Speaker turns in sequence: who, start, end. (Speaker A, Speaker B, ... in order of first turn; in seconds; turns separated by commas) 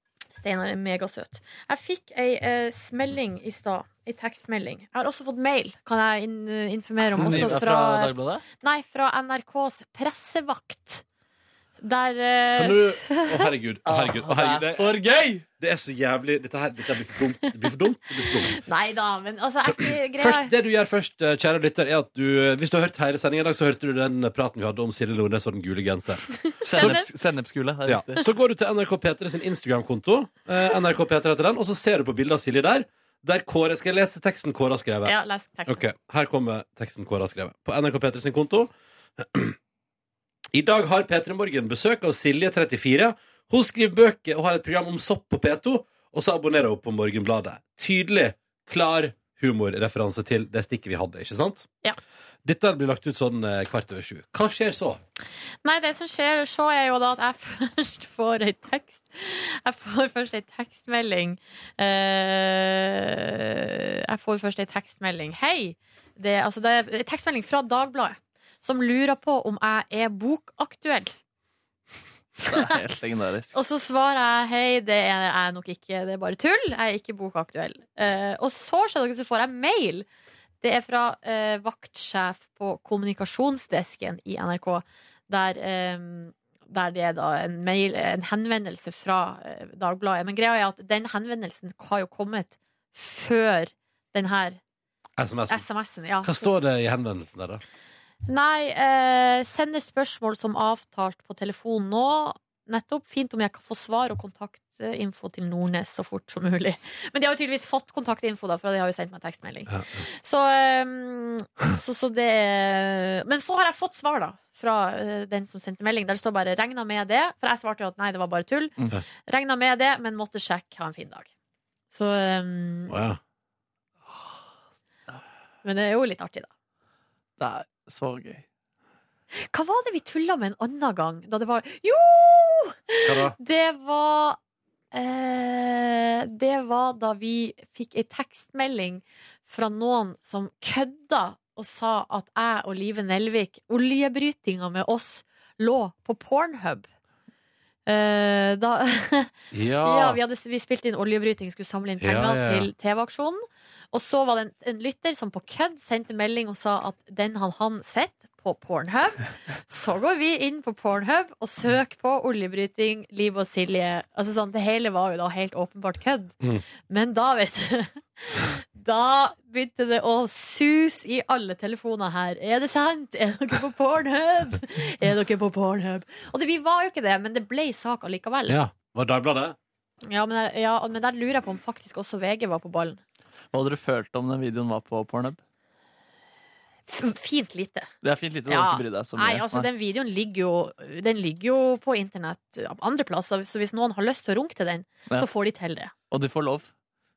Speaker A: 0.3-11.0, Speaker B: 7.2-8.4, Speaker C: 7.2-7.6, Speaker A: 11.8-13.5, Speaker C: 12.6-15.0, Speaker B: 13.8-15.4, Speaker C: 15.6-18.6, Speaker A: 18.2-20.5, Speaker C: 19.8-27.0, Speaker B: 26.6-28.2, Speaker A: 26.7-27.1, Speaker C: 27.9-35.1, Speaker A: 35.0-35.8, Speaker C: 35.7-39.6, Speaker C: 40.5-51.7, Speaker C: 52.4-55.0, Speaker A: 55.6-71.1, Speaker B: 72.4-73.5, Speaker A: 73.5-80.0, Speaker A: 80.6-94.6, Speaker C: 95.2-95.6, Speaker A: 95.5-96.5, Speaker C: 96.2-97.6, Speaker A: 98.2-118.7, Speaker C: 109.7-110.0, Speaker A: 119.3-121.3, Speaker A: 121.9-122.9, Speaker C: 122.9-123.2, Speaker A: 125.6-126.5, Speaker B: 127.4-128.4, Speaker A: 129.3-134.4, Speaker C: 133.0-133.3, Speaker A: 134.9-146.9, Speaker A: 147.9-166.3, Speaker C: 149.5-150.2, Speaker C: 152.0-152.7, Speaker A: 166.9-178.6, Speaker C: 178.5-179.6, Speaker A: 180.1-183.0, Speaker B: 183.5-185.4, Speaker A: 186.9-187.9, Speaker B: 188.0-189.7, Speaker A: 188.5-195.9, Speaker B: 196.1-196.7